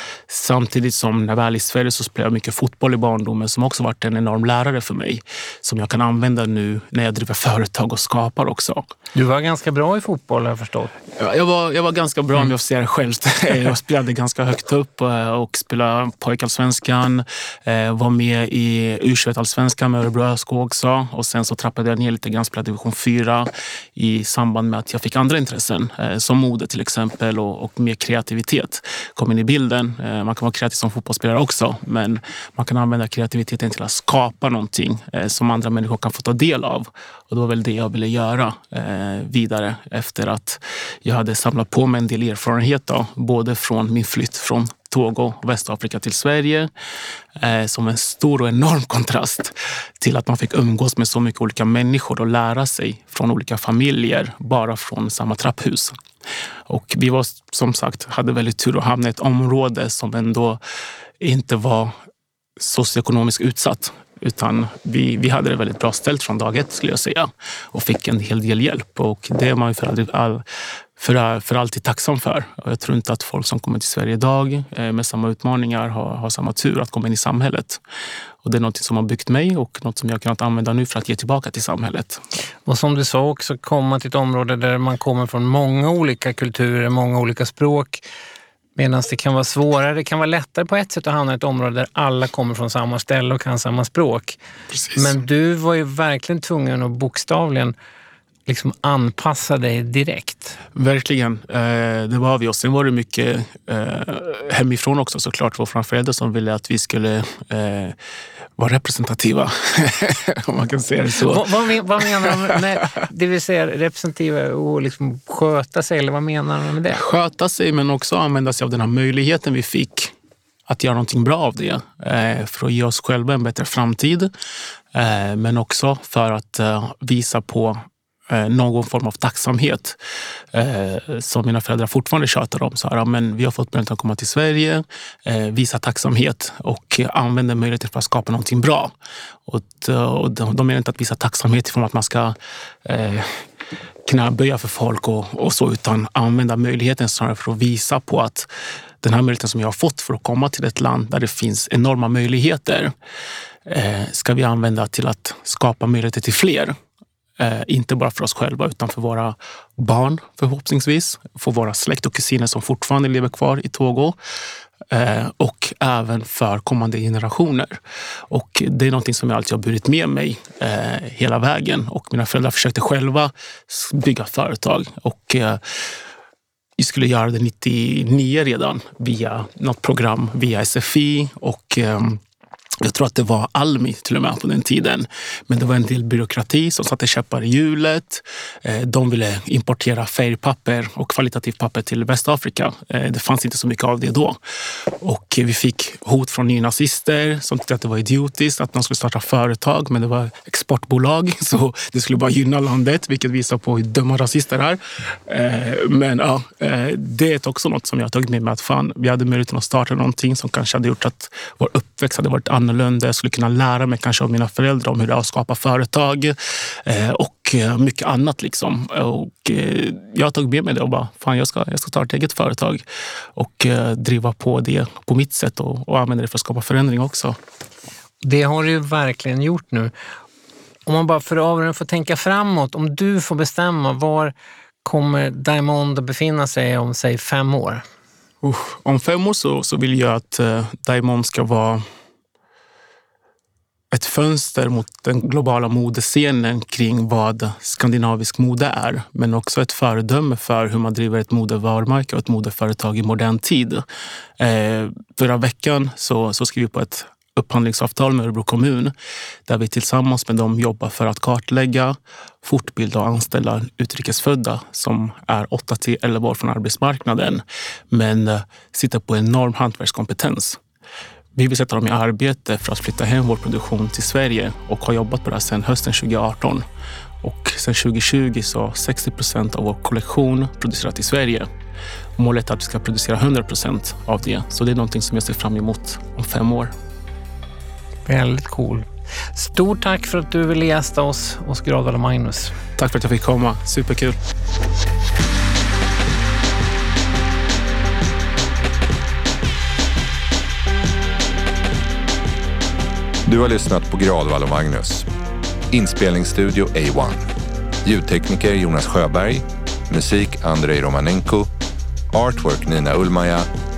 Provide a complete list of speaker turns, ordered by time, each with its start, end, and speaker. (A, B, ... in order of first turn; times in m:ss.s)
0:00.3-0:08.8 A
0:09.1-0:10.9 B
0:11.2-0:46.7 A
0:47.4-0:55.9 A
0:56.7-1:00.6 A
1:01.2-1:01.9 A
1:02.6-1:10.4 A
1:11.0-1:17.8 A
1:18.4-1:22.2 A
1:22.6-1:28.0 B
1:28.8-1:34.4 B
1:34.7-1:35.1 A
1:34.9-1:37.7 B
1:38.5-1:40.6 B
1:40.7-1:48.0 A
1:48.6-1:51.6 A
1:51.2-1:57.0 B
1:56.9-2:00.1 A
2:00.7-2:04.3 A
2:04.9-2:10.0 A
2:10.5-2:18.9 A
2:19.5-2:23.3 A
2:24.0-2:28.5 A
2:29.0-2:32.9 A
2:33.7-2:36.7 A
2:37.4-2:44.2 A
2:44.9-2:47.8 A
2:48.3-2:55.8 A
2:56.8-3:02.2 A
3:02.8-3:42.8 A
3:43.3-3:47.4 A
3:48.2-3:49.9 B
3:50.8-3:57.8 B
3:58.4-4:01.8 A
4:03.9-4:13.8 A
4:14.4-4:18.9 A
4:19.5-4:30.6 A
4:31.4-4:36.6 A
4:37.2-4:41.5 A
4:42.2-4:46.7 A
4:48.0-4:52.5 B
4:52.8-4:54.2 A
5:03.2-5:05.1 C
5:05.7-5:07.2 C
5:07.8-5:11.5 C
5:12.1-5:13.5 C